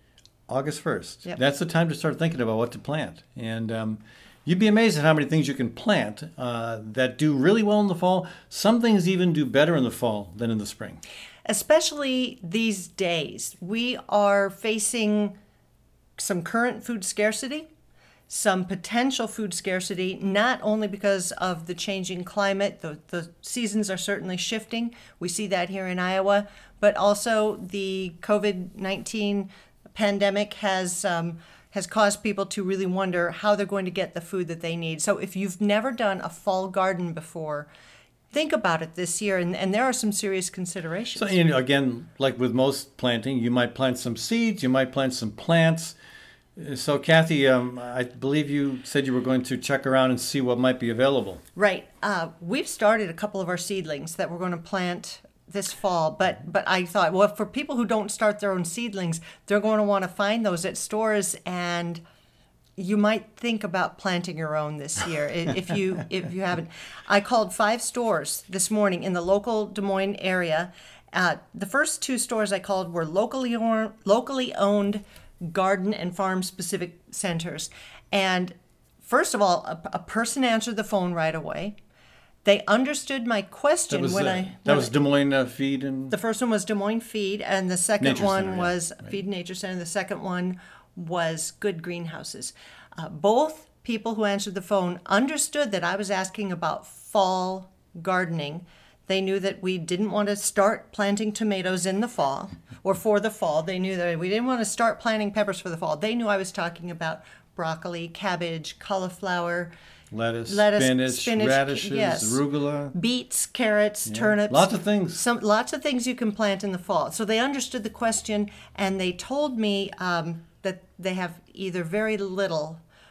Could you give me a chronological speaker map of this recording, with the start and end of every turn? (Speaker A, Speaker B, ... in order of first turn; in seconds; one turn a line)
Speaker A: 0.5-11.0
Speaker B: 11.4-15.3
Speaker B: 16.2-17.7
Speaker B: 18.3-37.7
Speaker B: 38.3-41.4
Speaker A: 41.1-46.0
Speaker A: 46.6-51.4
Speaker B: 51.5-62.0
Speaker B: 62.8-81.8
Speaker B: 82.4-84.9
Speaker A: 83.9-86.2
Speaker B: 86.1-109.7
Speaker A: 88.0-88.8
Speaker A: 110.1-112.9
Speaker B: 110.5-112.4
Speaker B: 112.9-122.8
Speaker A: 114.1-115.2